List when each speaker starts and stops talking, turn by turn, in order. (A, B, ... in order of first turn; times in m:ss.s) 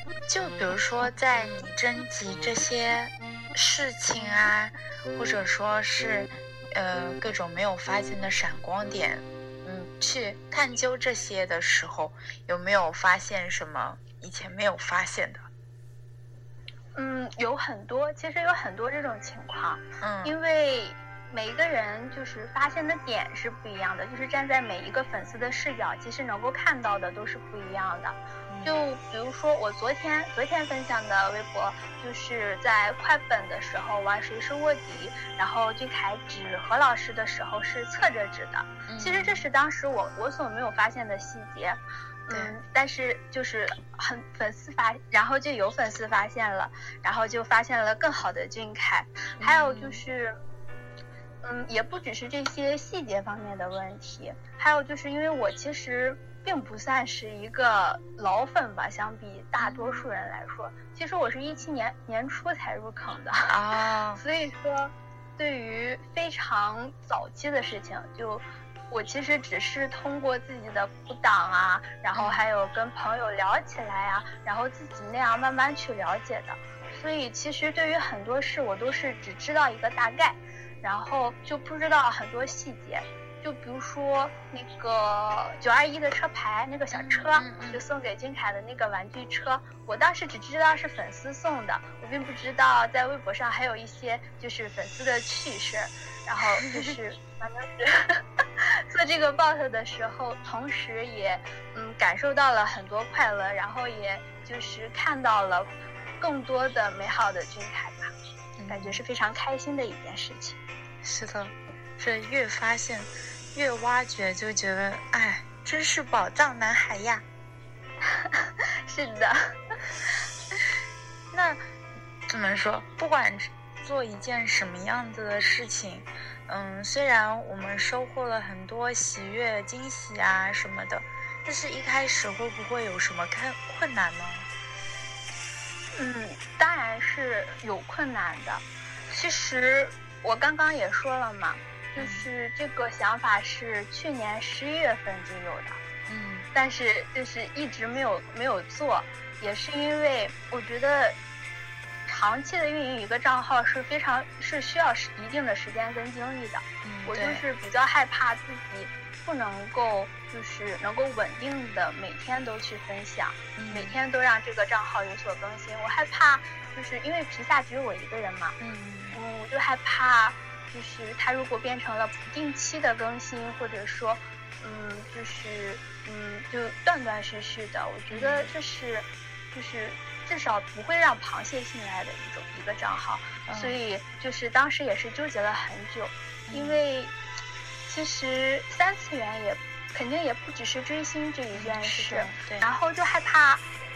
0:00.3-0:15.5 A
0:17.0-0:50.4 B
0:20.0-0:20.4 A
0:28.5-0:28.8 A
0:38.9-0:39.5 A
0:42.3-0:42.6 A
0:49.4-0:50.0 A
0:51.4-1:03.5 B
0:59.6-1:00.0 A
1:03.5-1:04.2 A
1:04.2-1:48.1 B
1:12.1-1:12.5 A
1:26.9-1:27.8 A
1:36.6-1:37.0 A
1:48.6-1:49.0 A
1:48.7-1:50.6 B
1:51.0-1:57.2 A
1:58.0-1:59.5 B
2:01.3-2:01.6 A
2:02.3-2:14.5 A
2:16.0-2:25.8 B
2:22.0-2:22.3 A
2:26.1-2:26.5 A
2:26.5-2:31.2 B
2:32.1-2:48.6 B
2:36.8-2:37.4 A
2:43.6-2:44.0 A
2:48.6-2:49.2 A
2:49.1-3:07.2 B
2:58.1-2:58.5 A
3:03.5-3:03.8 A
3:06.5-3:06.8 A
3:07.9-3:13.6 B
3:11.5-3:12.7 A